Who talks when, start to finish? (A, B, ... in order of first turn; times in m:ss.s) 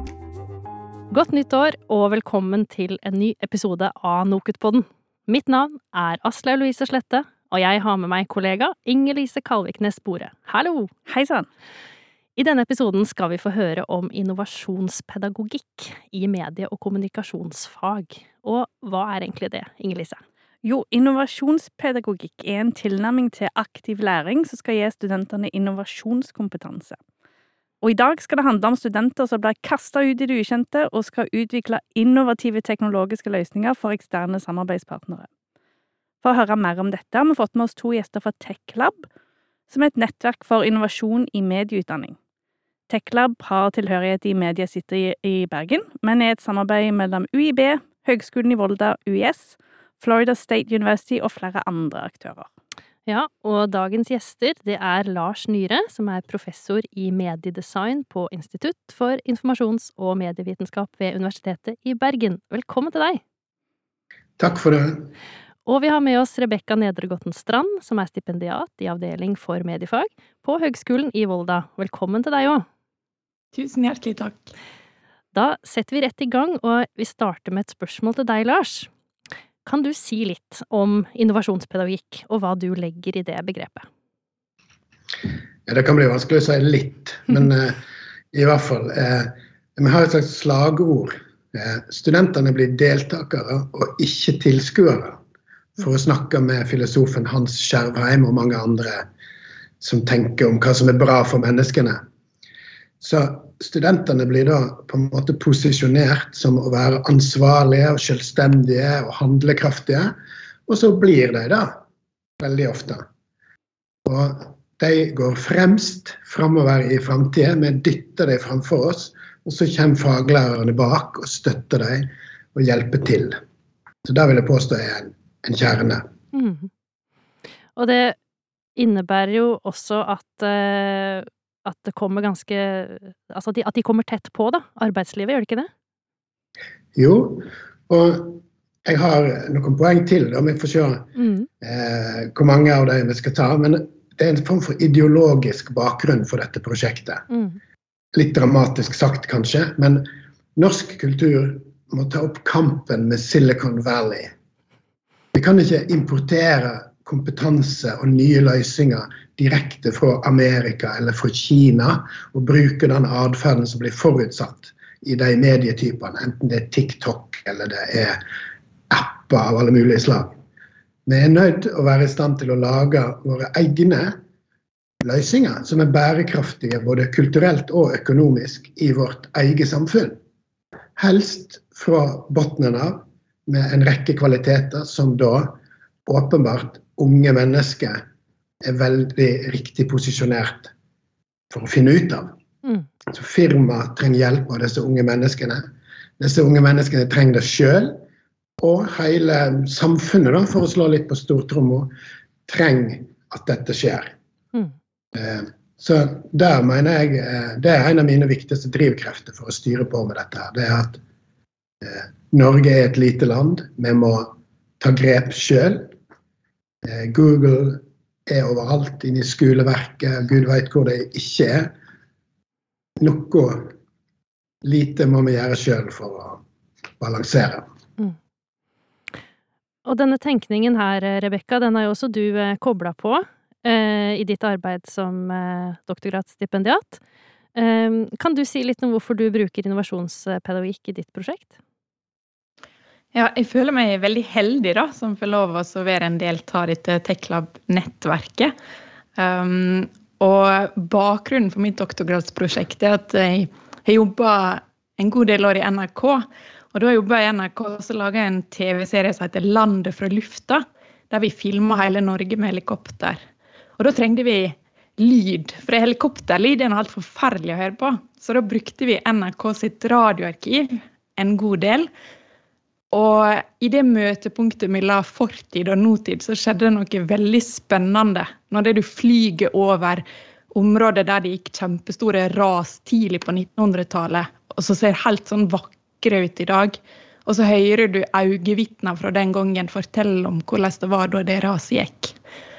0:01.1-0:10.9 A
0:11.1-0:11.5 B
0:12.4-0:20.2 A
0:20.6-0:27.0 B
0:27.8-0:35.3 B
0:36.2-0:39.1 B
0:39.7-0:42.2 B
0:42.9-0:52.5 B
0:53.1-1:03.2 A
1:04.4-1:05.1 C
1:05.7-1:12.6 A
1:13.5-1:14.5 D
1:15.3-1:18.9 A
1:19.6-1:23.9 A
1:25.7-1:27.8 C
1:28.3-1:35.2 C
1:35.8-1:39.1 C
1:39.8-1:42.0 C
1:43.0-1:50.1 C
1:50.7-1:51.8 C
1:52.4-1:53.0 C
1:54.0-2:03.4 C
2:04.0-2:06.1 C
2:06.3-2:06.7 A
2:07.8-2:08.2 A
2:08.8-2:15.7 A
2:17.0-2:21.1 C
2:21.2-2:21.5 A
2:21.6-2:27.2 C
2:27.3-2:27.6 A
2:28.1-2:34.3 C
2:35.3-2:48.2 C
2:48.9-2:50.4 C
2:51.1-2:54.2 C
2:55.0-3:00.2 C
3:01.0-3:08.0 C
3:08.6-3:10.7 C
3:11.5-3:12.3 C
3:13.1-3:15.6 C
3:16.2-3:18.0 C
3:18.6-3:21.9 C
3:22.5-3:24.2 C
3:25.2-3:31.0 C
3:31.8-3:35.9 C
3:36.8-3:41.7 C
3:43.0-3:43.7 C
3:44.6-3:46.4 C
3:47.0-3:47.7 C
3:49.8-3:57.0 A
3:57.6-4:01.5 A
4:03.1-4:08.5 D
4:09.2-4:23.2 D
4:23.8-4:31.9 D
4:32.9-4:52.2 D